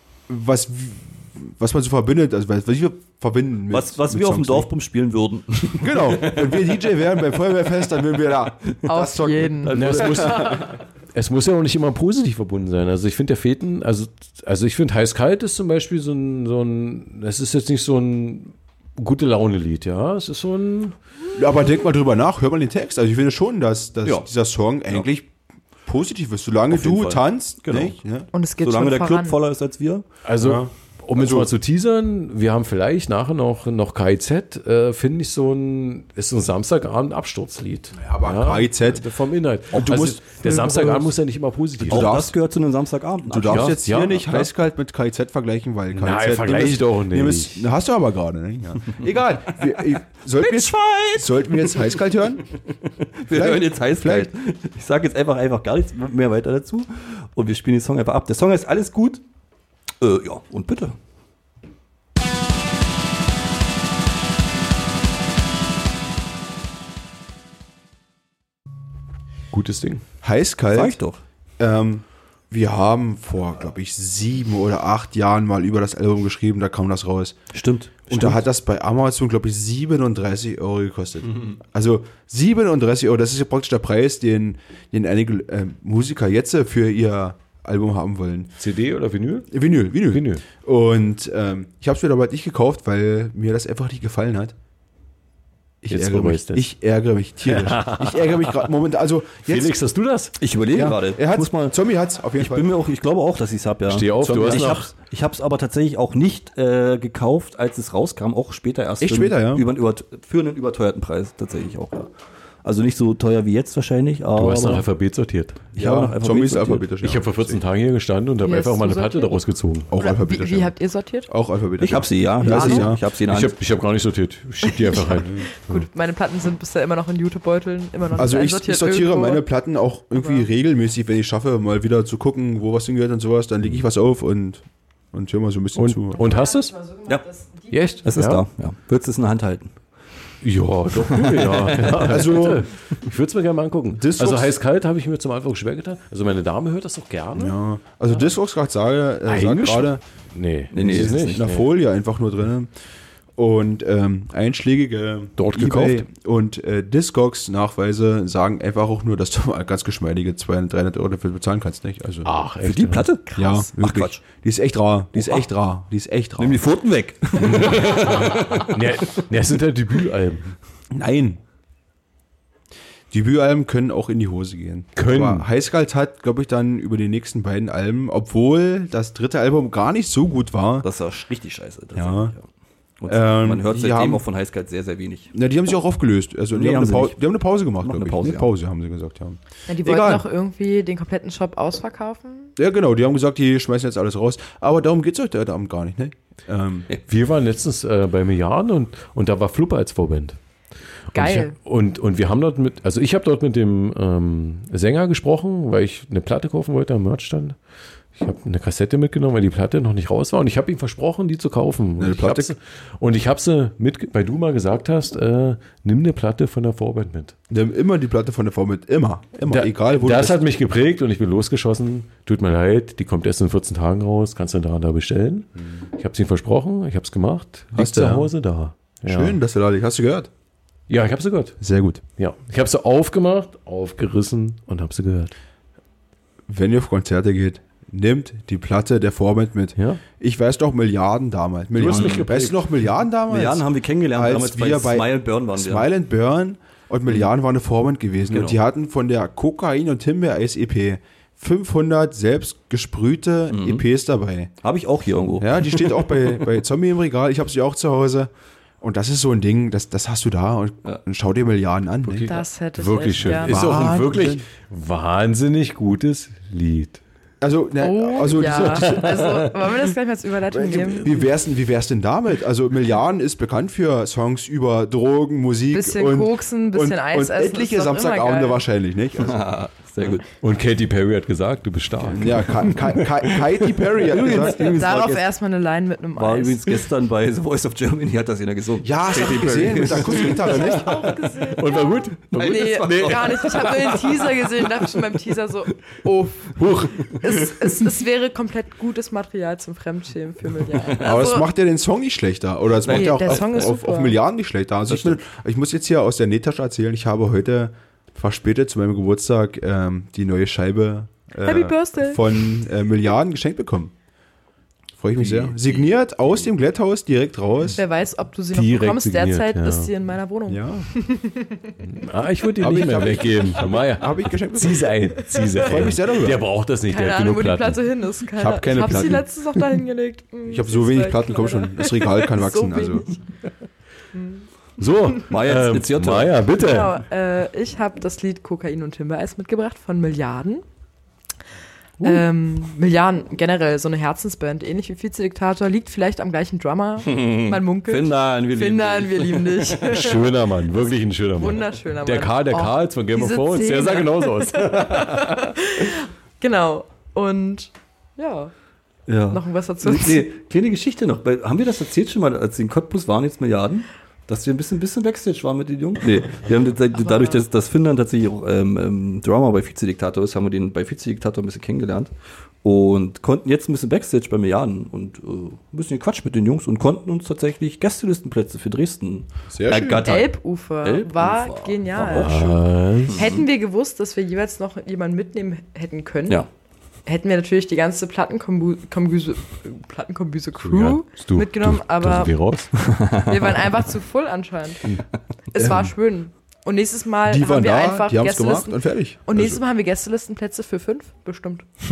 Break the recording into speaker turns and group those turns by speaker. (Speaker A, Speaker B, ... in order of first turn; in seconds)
Speaker A: 0.3-4.7, 5.8-10.4, 21.4-25.4, 25.9-28.3, 30.4-31.5, 37.9-39.0, 39.7-41.0, 41.8-42.4, 43.3-52.5, 53.3-54.3, 70.2-71.0, 71.6-77.4, 78.1-88.5, 89.5-94.5, 95.8-99.8, 100.7-102.7, 104.2-104.8, 109.0-109.7, 115.8-117.6, 119.9-120.8, 121.3-123.0, 128.2-136.2, 142.0-142.7, 143.9-144.5, 147.3-150.0, 150.8-152.7, 153.4-162.3, 163.3-166.6, 170.9-171.4, 173.1-180.9, 181.9-182.3, 183.1-184.2, 185.3-190.2, 192.6-196.9, 212.0-212.5, 217.5-220.4, 227.7-228.3, 229.0-230.3, 231.6-232.0, 236.5-254.5, 255.4-262.3, 263.3-264.4, 267.4-269.2, 270.5-279.4, 282.1-284.7, 288.8-291.0, 301.0-313.9, 315.0-317.8, 320.5-320.9, 322.6-324.9, 325.6-326.4, 328.4-329.3, 330.5-333.1, 379.5-380.2, 395.6-395.9, 397.3-399.6
Speaker B: 3.7-6.8, 9.7-10.5, 26.7-28.0, 28.6-30.1, 41.9-43.8, 50.4-51.9, 53.2-59.2, 60.0-61.0, 70.7-71.2, 77.5-78.4, 100.4-101.8, 102.4-112.1, 112.6-114.9, 115.7-116.8, 121.8-123.6, 138.1-139.7, 141.0-142.4, 150.7-151.4, 162.6-164.2, 165.2-165.4, 166.4-168.8, 180.8-182.4, 183.0-185.3, 186.5-187.2, 187.8-188.5, 241.9-242.3, 243.3-245.9, 248.3-248.6, 253.5-253.8, 254.6-256.4, 279.2-280.2, 284.0-285.3, 286.1-290.6, 292.3-294.8, 302.9-303.7, 304.9-305.2, 315.2-315.7, 335.3-336.5, 347.1-350.1, 359.1-382.6, 383.1-383.5, 392.9-393.3
Speaker C: 8.9-9.8, 28.3-29.4, 118.4-119.4, 120.0-121.3, 122.4-122.9, 124.6-129.4, 130.1-130.5, 136.2-138.0, 189.7-192.5, 201.1-201.6, 262.3-263.8, 267.8-271.1, 275.7-278.6, 284.6-286.7, 290.4-301.5, 302.9-304.2, 311.4-312.2, 317.7-321.6, 326.9-333.2, 334.1-334.4, 336.6-340.6, 342.0-350.2, 351.4-358.5, 359.3-360.3, 366.9-367.4, 380.0-382.6, 383.1-386.4, 387.1-392.5, 393.3-394.9, 395.5-401.7
Speaker D: 9.7-10.6, 11.1-20.9, 30.2-42.2, 43.5-44.5, 45.9-47.7, 69.5-70.0, 88.6-90.4, 95.9-96.7, 97.5-98.6, 99.5-100.4, 103.9-104.9, 114.3-115.6, 117.0-119.9, 123.3-125.8, 135.8-136.8, 137.7-138.4, 140.4-147.6, 149.3-151.7, 155.4-156.1, 162.2-163.4, 167.4-170.6, 175.0-175.5, 197.1-200.4, 201.1-207.6, 208.2-217.3, 219.4-229.4, 230.9-231.6, 232.2-235.3, 239.8-240.0, 241.8-242.6, 262.0-267.0, 268.5-269.5, 280.4-283.2, 291.6-293.6, 296.6-297.1, 318.5-319.9, 321.9-327.8, 334.8-337.0, 342.0-342.2, 349.9-355.5, 382.0-383.3, 390.6-392.7